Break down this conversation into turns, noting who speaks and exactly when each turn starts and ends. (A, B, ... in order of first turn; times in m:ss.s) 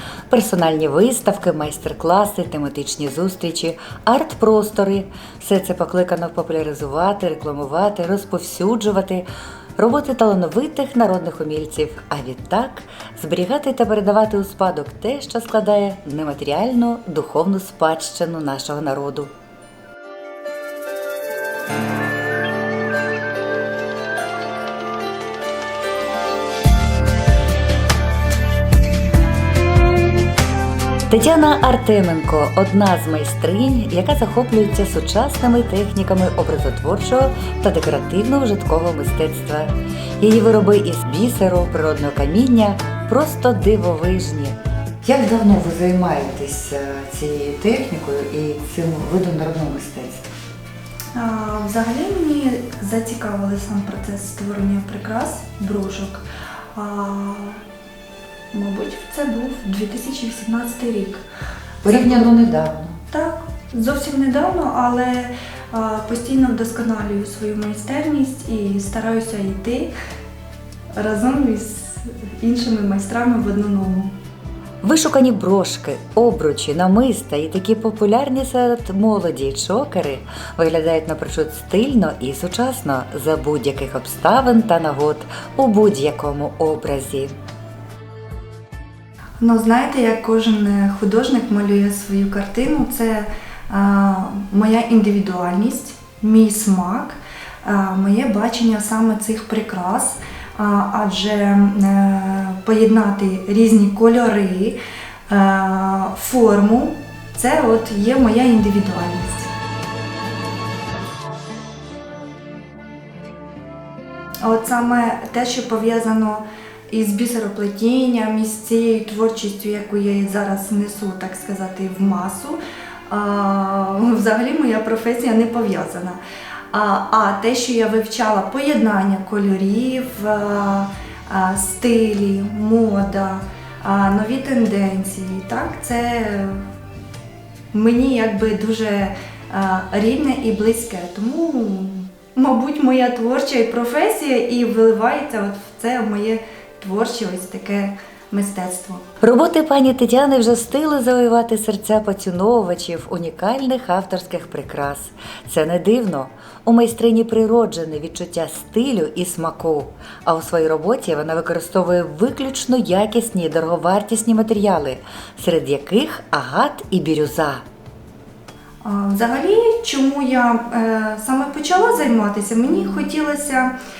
0:00.3-0:09.3 A
0:09.8-0:19.3 A
0:31.1-0:50.3 A
0:51.2-0:57.6 B
0:58.5-1:01.2 B
1:01.8-1:03.0 A
1:01.8-1:02.3 B
1:03.1-1:09.9 B
1:11.0-1:14.1 B
1:14.8-1:27.3 A
1:29.4-1:44.8 B
1:45.3-1:49.5 B
1:54.4-2:06.2 B
2:06.7-2:16.6 B
2:17.7-2:29.0 B
2:29.2-2:47.6 A
2:48.8-2:53.7 B